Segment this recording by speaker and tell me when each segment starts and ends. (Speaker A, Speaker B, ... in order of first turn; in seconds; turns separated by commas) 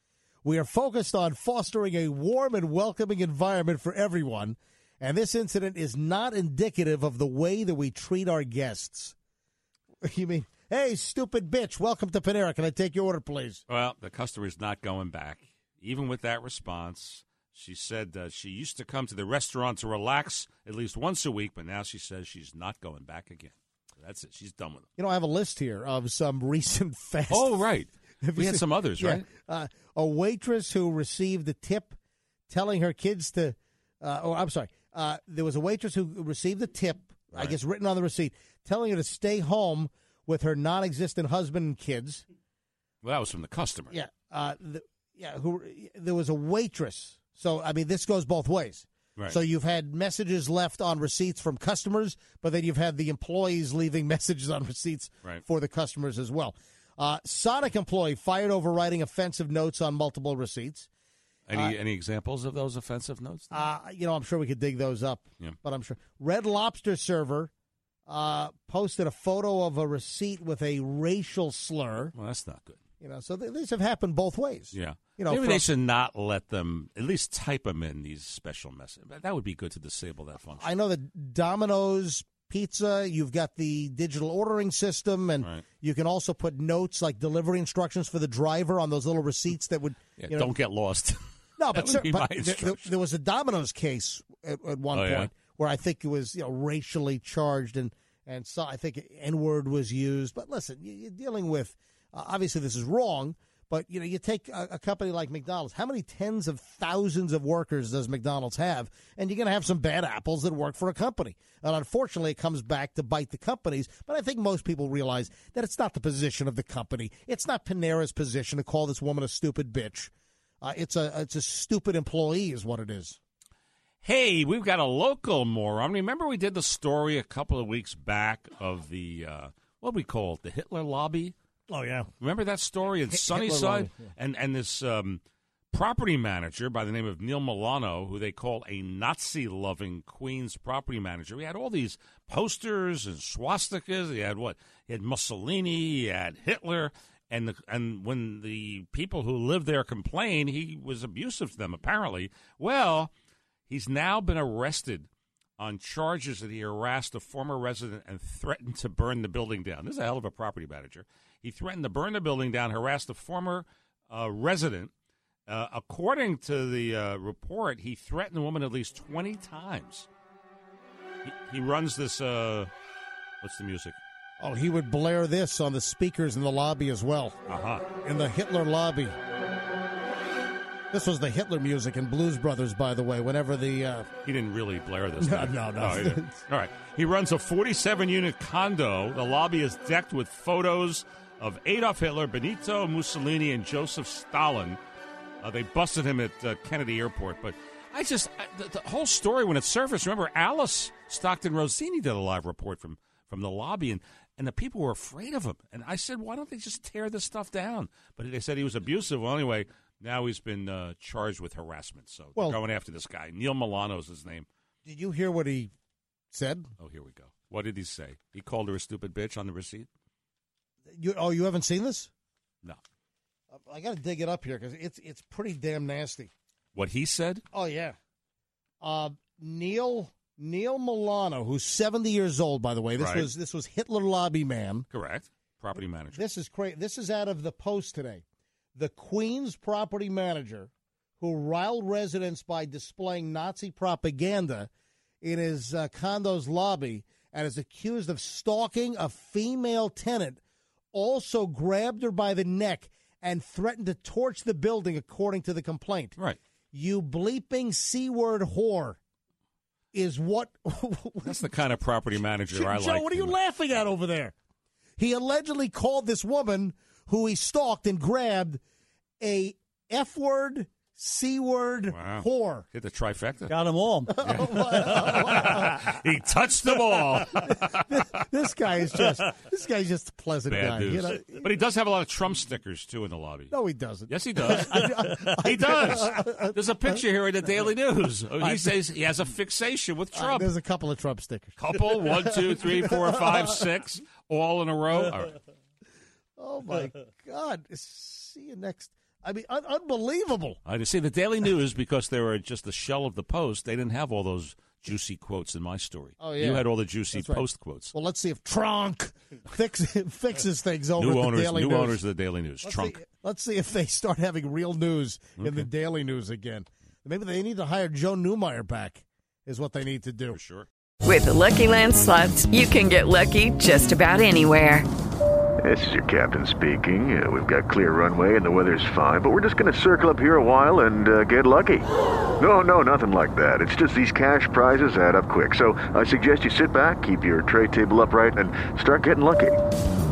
Speaker A: 0.4-9.2, Speaker A: 10.0-13.6, Speaker B: 13.7-24.9, Speaker A: 25.0-27.6, Speaker B: 27.3-29.3, Speaker A: 28.2-31.9, Speaker A: 32.5-42.2, Speaker B: 43.0-44.0, Speaker A: 43.9-60.9, Speaker B: 61.5-63.6, Speaker A: 63.5-67.5, Speaker A: 68.1-72.1, Speaker B: 72.1-72.8, Speaker A: 73.0-75.7, Speaker B: 74.7-80.7, Speaker A: 80.6-90.5, Speaker B: 90.2-92.9, Speaker A: 91.6-123.2, Speaker B: 94.9-95.3, Speaker B: 124.0-131.3, Speaker A: 131.7-132.1, Speaker B: 132.2-153.1, Speaker A: 133.1-134.0, Speaker B: 153.7-164.9, Speaker B: 165.5-170.1, Speaker B: 171.2-172.7, Speaker B: 173.4-174.0, Speaker A: 174.4-177.4, Speaker B: 177.5-177.9, Speaker A: 178.0-179.2, Speaker A: 180.9-184.1, Speaker B: 184.2-194.8, Speaker A: 185.2-186.4, Speaker B: 195.4-214.5, Speaker A: 214.8-215.7, Speaker A: 216.3-216.7, Speaker B: 216.8-219.9, Speaker A: 220.9-222.1, Speaker A: 223.5-226.3, Speaker B: 226.8-227.5, Speaker A: 227.5-228.0, Speaker A: 228.8-234.9, Speaker B: 233.0-233.3, Speaker B: 234.9-236.2, Speaker A: 236.1-238.2, Speaker A: 238.8-244.7, Speaker A: 245.2-250.4, Speaker A: 250.9-256.2, Speaker A: 256.7-259.0, Speaker A: 259.9-261.4, Speaker B: 261.2-263.4, Speaker A: 262.5-264.3, Speaker A: 265.0-268.6, Speaker A: 269.2-272.7, Speaker B: 271.9-277.9, Speaker A: 274.1-275.8, Speaker A: 277.4-281.4, Speaker B: 280.5-283.6, Speaker A: 283.5-286.6, Speaker B: 284.1-290.5, Speaker A: 288.4-288.7, Speaker A: 290.1-293.6, Speaker B: 291.6-295.4, Speaker A: 296.4-300.6, Speaker B: 300.6-307.9, Speaker A: 306.2-312.0, Speaker B: 311.0-313.0, Speaker A: 312.6-320.4, Speaker B: 315.4-315.7, Speaker B: 320.3-320.7, Speaker C: 321.0-324.9, Speaker D: 325.6-331.9, Speaker D: 332.4-339.6